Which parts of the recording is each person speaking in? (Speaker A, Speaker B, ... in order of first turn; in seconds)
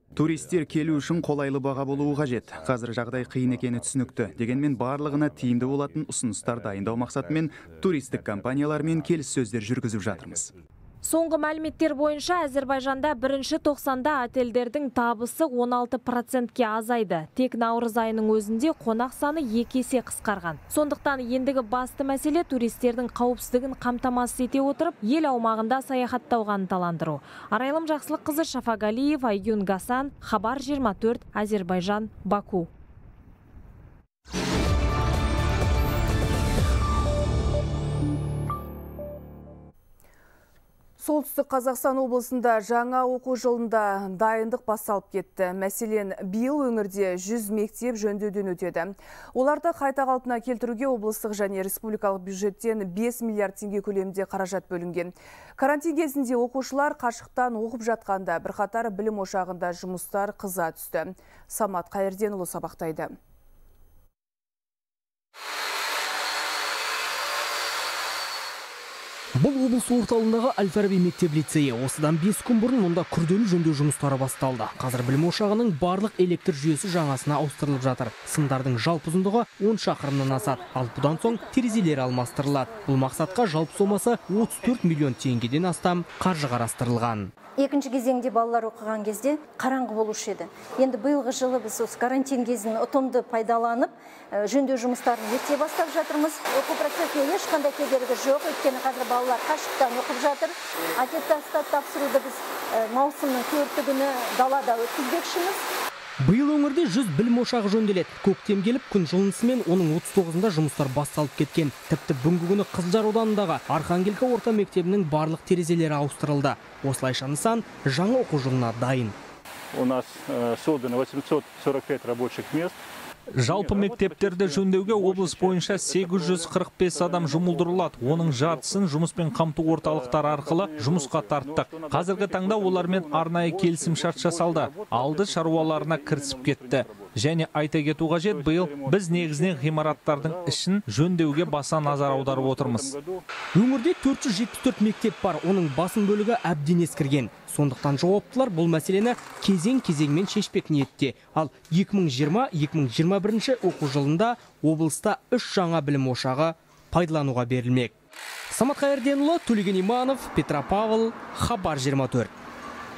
Speaker A: 0.1-10.5
Speaker B: 1.9-2.3, 3.2-6.0, 7.0-7.3, 123.3-142.9
Speaker C: 11.0-32.7
Speaker D: 41.0-63.1
Speaker E: 69.4-87.3, 106.2-119.2, 143.6-157.9, 158.5-162.3
Speaker F: 87.6-105.7
Speaker G: 119.8-122.8, 123.5-128.8, 129.7-137.1, 138.3-140.6, 141.9-143.2